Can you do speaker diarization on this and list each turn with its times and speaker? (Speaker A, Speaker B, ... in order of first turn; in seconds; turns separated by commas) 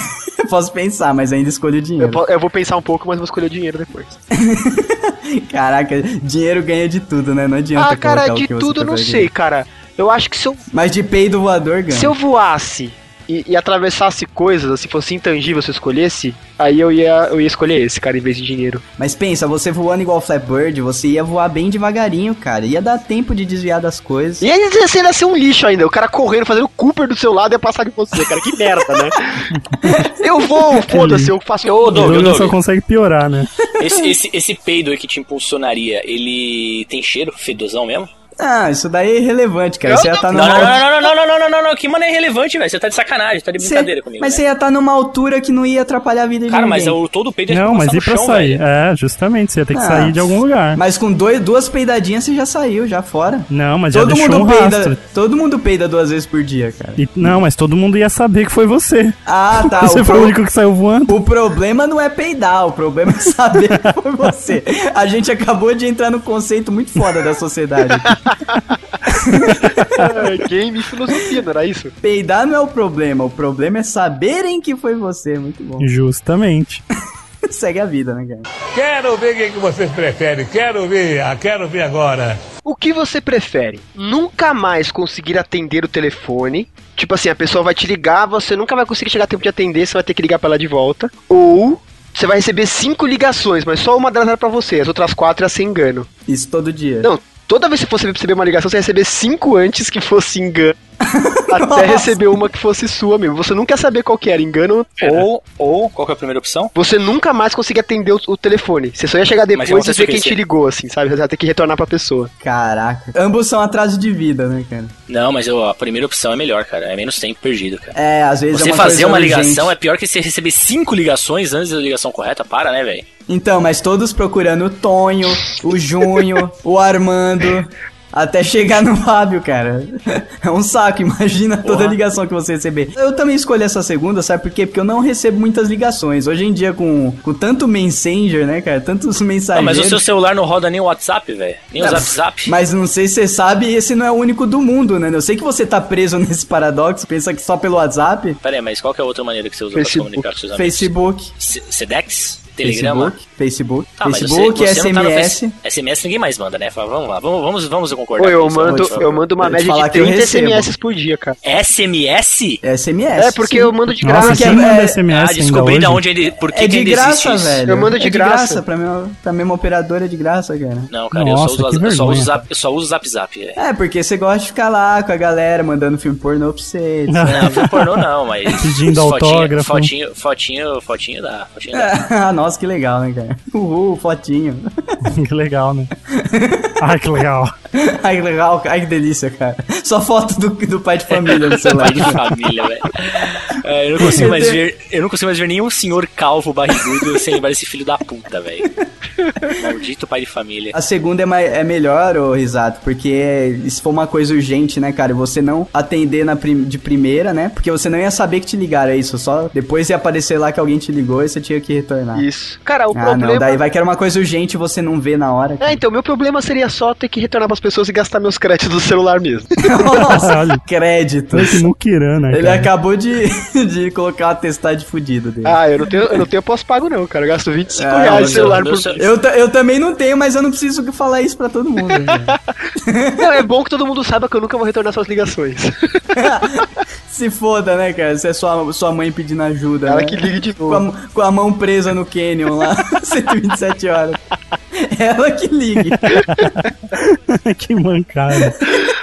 Speaker A: 0.4-2.2, Speaker B: 2.0-4.2, Speaker A: 4.3-9.3, Speaker B: 7.8-10.6, Speaker A: 10.7-12.1, Speaker B: 11.9-18.8, Speaker A: 19.0-24.5, Speaker B: 24.4-29.5, Speaker A: 29.8-30.1, Speaker B: 30.1-32.5, Speaker C: 30.9-31.3, Speaker D: 31.6-32.6, Speaker C: 31.9-33.5, Speaker D: 33.7-38.1, Speaker A: 38.4-40.8, Speaker B: 39.9-40.8, Speaker D: 40.3-44.4, Speaker A: 43.6-47.0, Speaker D: 46.5-48.6, Speaker C: 47.5-50.8, Speaker A: 49.7-57.4, Speaker C: 53.5-55.0, Speaker C: 57.0-61.2, Speaker A: 59.3-60.4, Speaker A: 61.1-68.2, Speaker B: 68.0-68.3, Speaker A: 69.1-70.1, Speaker B: 69.8-71.9, Speaker A: 72.0-75.9, Speaker C: 75.8-76.8, Speaker A: 77.5-78.5, Speaker E: 78.7-82.4, Speaker B: 82.6-96.1, Speaker A: 96.3-97.1, Speaker B: 97.0-100.8, Speaker A: 101.0-102.2, Speaker B: 101.5-105.3, Speaker D: 105.0-106.7, Speaker B: 106.8-112.3, Speaker D: 109.5-110.4, Speaker A: 112.4-114.9, Speaker D: 115.1-118.0, Speaker A: 118.0-119.8, Speaker D: 118.5-123.1, Speaker A: 123.3-140.1, Speaker D: 131.7-132.0, Speaker D: 139.5-142.6, Speaker A: 141.8-148.4, Speaker D: 148.4-153.2, Speaker B: 149.8-150.3, Speaker A: 150.5-151.3, Speaker A: 152.6-155.6, Speaker D: 154.0-159.2, Speaker B: 158.2-161.4, Speaker A: 158.7-160.7, Speaker D: 161.4-162.6, Speaker A: 162.6-165.0, Speaker B: 163.2-164.6, Speaker C: 164.0-166.0, Speaker D: 165.1-167.6, Speaker A: 166.5-170.9, Speaker B: 167.7-168.6, Speaker D: 170.9-173.6, Speaker C: 171.1-172.3, Speaker A: 173.6-177.7, Speaker C: 177.1-177.9, Speaker D: 177.3-181.9, Speaker C: 178.5-179.9, Speaker A: 181.7-185.0, Speaker C: 185.0-185.9, Speaker A: 186.1-186.8, Speaker C: 186.8-187.5, Speaker A: 187.7-192.3, Speaker D: 191.1-198.7, Speaker A: 194.0-194.6, Speaker D: 199.5-200.8, Speaker A: 200.7-212.2, Speaker B: 212.1-213.6, Speaker A: 212.9-215.8, Speaker B: 215.6-219.7, Speaker A: 219.6-221.7, Speaker C: 220.1-220.6, Speaker C: 221.3-222.7, Speaker A: 222.3-225.6, Speaker B: 225.4-229.0, Speaker A: 227.8-233.2, Speaker D: 228.0-229.1, Speaker B: 232.0-232.4, Speaker B: 233.2-236.7, Speaker A: 236.2-244.2, Speaker B: 239.9-240.8, Speaker A: 244.7-246.2, Speaker C: 246.0-248.7